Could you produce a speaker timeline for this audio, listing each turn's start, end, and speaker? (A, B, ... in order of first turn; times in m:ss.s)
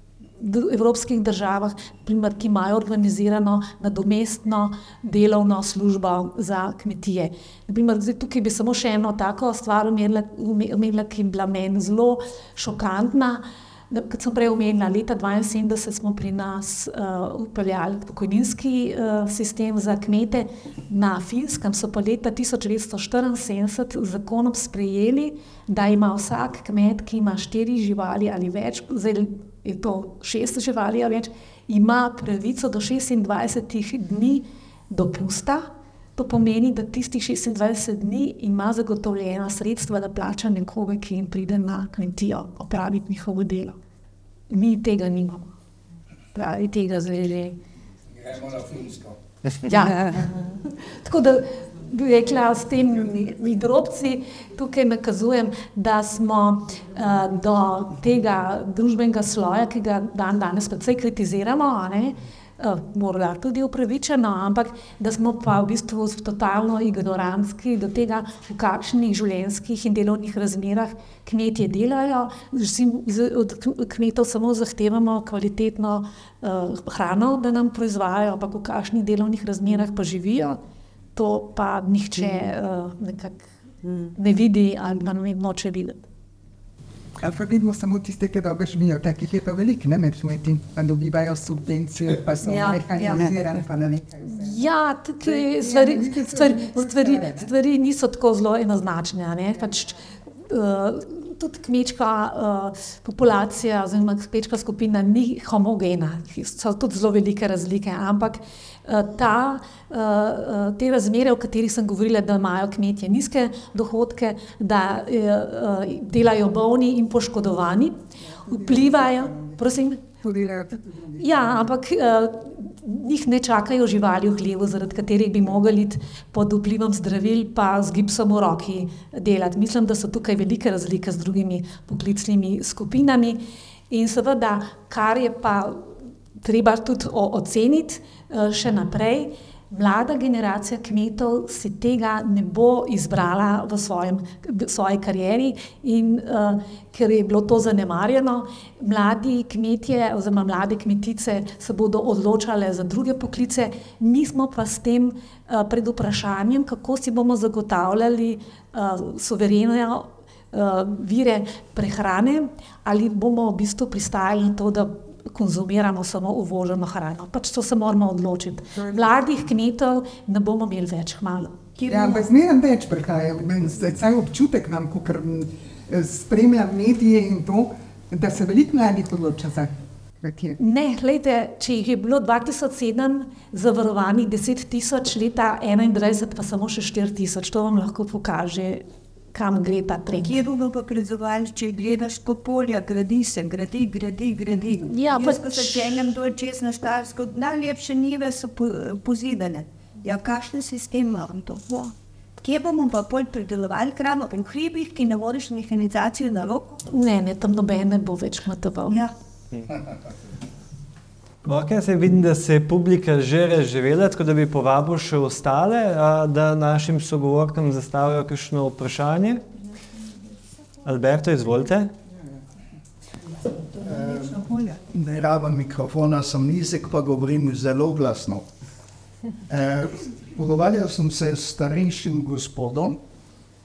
0:00.4-0:43.8 A
0:44.5-0:45.5 A
0:46.3-0:47.6 A
0:48.1-0:49.2 B
0:49.7-1:20.6 A
1:21.2-1:23.5 A
1:24.2-1:26.1 A
1:27.2-1:34.6 C
1:34.3-2:00.1 A
1:35.2-1:37.5 C
1:58.5-1:59.4 C
2:00.2-2:01.7 C
2:01.2-2:15.9 A
2:16.4-2:51.6 A
2:51.8-2:52.3 D
2:51.9-3:00.6 C
3:00.6-3:10.4 A
3:10.2-3:26.8 D
3:14.9-3:15.9 A
3:26.9-3:29.0 A
3:31.4-3:39.4 E
3:40.8-3:41.9 E
3:43.8-3:48.4 B
3:49.5-3:53.0 B